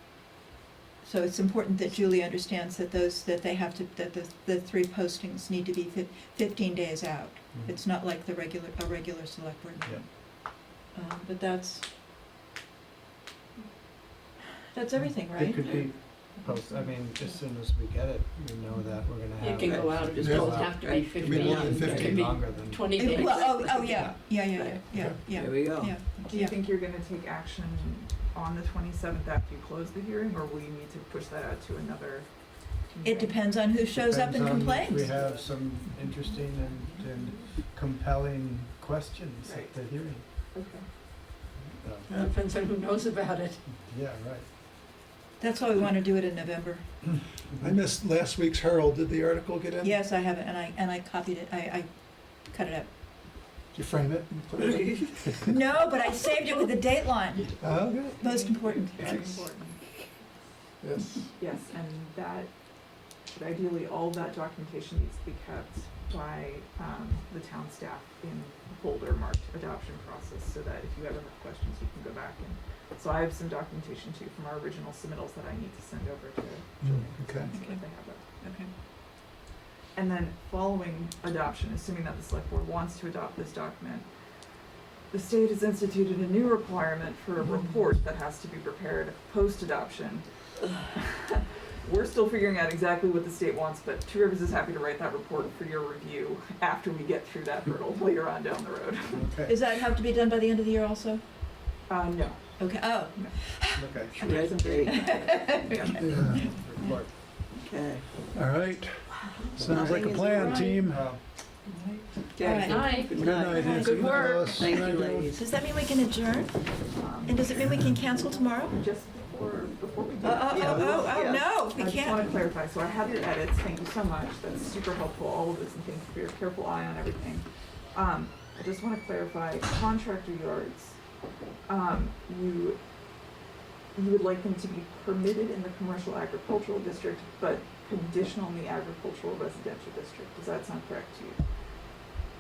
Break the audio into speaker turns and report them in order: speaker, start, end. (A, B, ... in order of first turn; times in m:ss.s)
0:01.0-0:10.1 A
0:10.9-0:11.9 A
0:14.7-0:15.8 A
0:15.4-0:23.0 B
0:15.6-0:15.9 C
0:19.4-0:24.1 D
0:19.6-0:22.0 C
0:20.2-0:20.7 E
0:21.2-0:22.3 E
0:23.0-0:26.6 A
0:23.2-0:25.9 C
0:24.9-0:25.2 E
0:26.2-0:32.3 F
0:32.9-0:33.4 F
0:33.0-0:35.2 A
0:33.9-0:40.2 B
0:35.1-0:35.4 F
0:39.4-0:39.8 F
0:40.5-0:40.9 F
0:41.6-0:42.2 B
0:42.1-0:43.6 D
0:43.8-0:44.5 B
0:45.4-0:46.8 A
0:47.6-0:50.0 E
0:49.8-0:51.9 A
0:52.5-0:52.9 A
0:53.7-0:55.6 E
0:55.5-0:57.6 A
0:57.6-0:58.2 E
0:58.1-0:59.3 A
0:58.2-1:00.0 F
0:59.0-0:59.4 E
1:00.8-1:01.3 E
1:01.4-1:02.5 F
1:03.3-1:18.2 F
1:16.8-1:17.5 E
1:17.5-1:18.7 A
1:20.0-1:24.1 F
1:25.1-1:39.3 F
1:39.1-1:39.6 B
1:39.5-1:41.2 A
1:41.9-1:42.5 F
1:42.6-1:43.8 A
1:43.1-1:43.4 F
1:43.8-1:44.5 B
1:44.1-1:46.4 F
1:44.2-1:45.1 C
1:44.9-1:46.9 A
1:46.0-1:46.5 E
1:46.2-1:47.1 B
1:47.6-1:48.0 C
1:48.3-1:51.1 E
1:49.6-1:50.8 C
1:50.8-1:51.2 B
1:51.8-1:52.1 F
1:52.4-1:55.4 C
1:52.4-1:56.7 A
1:52.6-1:53.2 D
1:53.1-1:55.3 E
1:53.7-1:54.7 D
1:56.9-1:57.5 F
1:57.2-1:58.8 A
1:58.6-2:11.0 F
2:00.2-2:02.3 A
2:00.5-2:01.4 C
2:00.6-2:00.9 E
2:11.7-2:12.8 F
2:14.0-2:21.4 F